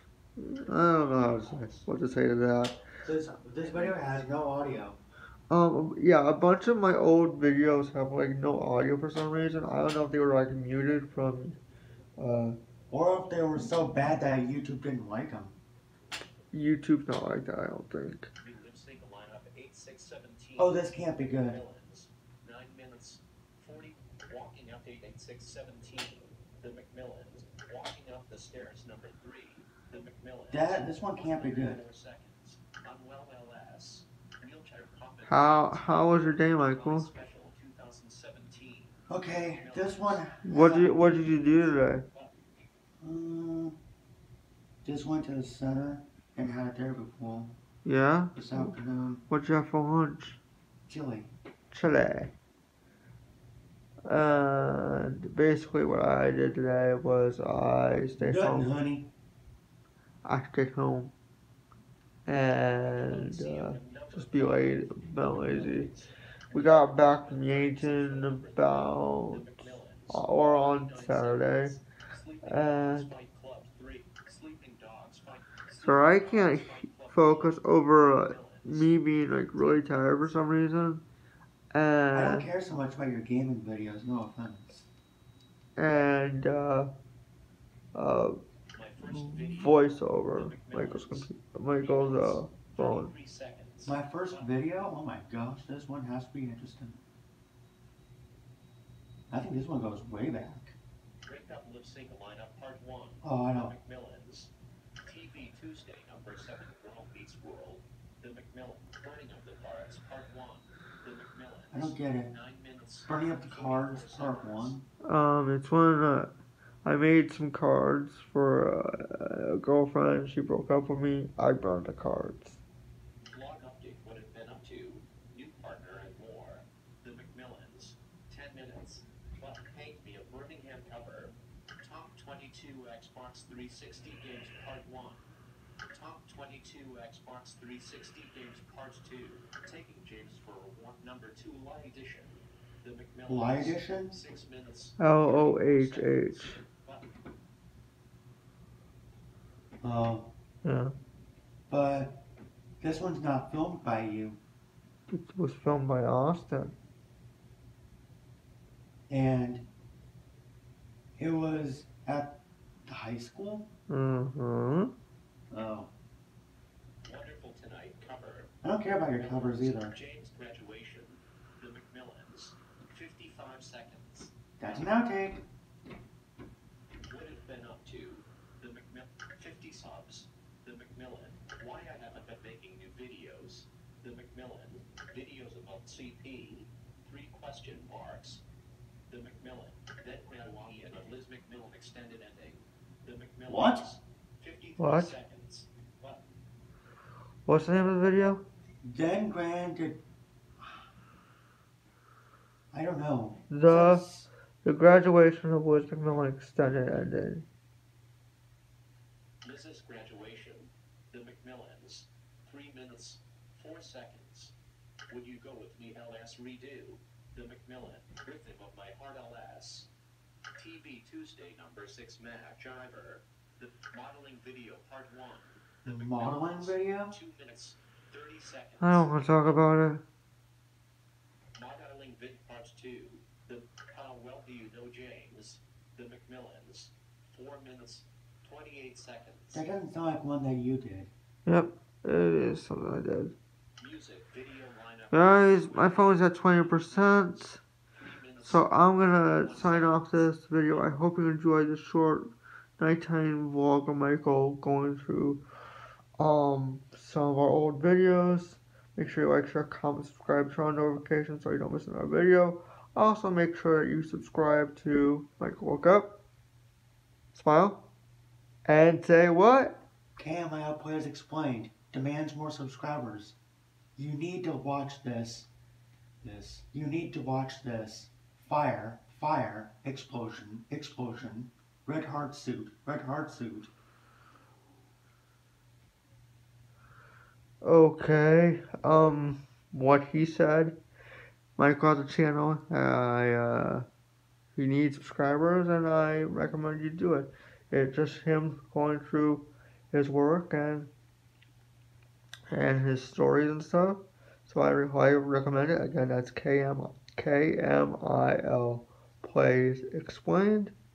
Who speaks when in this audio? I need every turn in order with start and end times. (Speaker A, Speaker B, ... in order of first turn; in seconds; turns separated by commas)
Speaker A: 0.4-2.8, Speaker B: 0.7-2.0, Speaker C: 3.0-5.0, Speaker B: 3.5-4.1, Speaker A: 5.5-11.6, Speaker A: 12.2-12.6, Speaker C: 12.9-15.6, Speaker A: 16.5-18.3, Speaker B: 18.4-40.3, Speaker C: 20.6-21.6, Speaker C: 30.5-31.8, Speaker A: 35.2-37.1, Speaker C: 39.1-41.3, Speaker A: 40.4-42.0, Speaker B: 40.8-42.6, Speaker C: 43.0-43.8, Speaker C: 44.8-47.6, Speaker A: 47.8-48.7, Speaker C: 48.3-49.2, Speaker A: 49.3-50.4, Speaker C: 50.9-51.3, Speaker A: 51.7-52.3, Speaker A: 54.1-58.7, Speaker C: 58.2-59.1, Speaker A: 60.2-61.1, Speaker A: 62.2-65.9, Speaker B: 62.3-80.5, Speaker A: 66.5-71.8, Speaker A: 72.4-73.1, Speaker A: 75.8-81.0, Speaker A: 81.7-82.5, Speaker C: 82.1-84.9, Speaker A: 85.8-86.9, Speaker A: 87.9-88.3, Speaker B: 88.7-94.5, Speaker A: 89.1-93.1, Speaker C: 93.8-97.0, Speaker C: 99.3-100.8, Speaker B: 101.2-114.8, Speaker C: 103.2-103.7, Speaker C: 111.7-112.3, Speaker C: 113.0-114.8, Speaker A: 115.1-116.3, Speaker A: 116.8-122.6, Speaker B: 123.3-135.2, Speaker B: 135.9-147.1, Speaker C: 143.3-144.2, Speaker A: 145.0-146.6, Speaker C: 149.8-150.3, Speaker A: 150.6-150.9, Speaker C: 151.7-152.2, Speaker C: 152.8-154.4, Speaker A: 155.1-156.7, Speaker C: 159.1-159.7, Speaker C: 161.2-163.7, Speaker A: 163.9-164.9, Speaker C: 165.5-165.9, Speaker B: 167.0-168.5, Speaker C: 168.6-169.9, Speaker B: 169.1-174.9, Speaker C: 174.6-175.4, Speaker B: 177.0-188.4, Speaker B: 189.1-196.2, Speaker C: 193.5-193.8, Speaker A: 194.8-195.2, Speaker A: 197.4-198.4, Speaker C: 198.8-200.0, Speaker C: 200.6-200.8, Speaker C: 202.7-204.3, Speaker A: 203.5-204.1, Speaker A: 204.6-207.4, Speaker B: 209.4-214.5, Speaker B: 215.1-219.9, Speaker B: 220.6-229.6, Speaker C: 225.8-227.2, Speaker A: 228.8-230.0, Speaker B: 231.5-239.7, Speaker C: 239.5-241.1, Speaker A: 241.4-243.3, Speaker B: 243.8-247.4, Speaker A: 245.1-247.6, Speaker B: 247.9-250.3, Speaker A: 248.4-255.4, Speaker A: 256.2-266.2, Speaker A: 267.3-267.9, Speaker A: 268.6-269.8, Speaker C: 270.2-273.4, Speaker C: 273.9-275.5, Speaker C: 276.2-283.7, Speaker A: 287.6-290.8, Speaker A: 291.6-293.8, Speaker A: 294.5-300.9, Speaker A: 302.5-310.7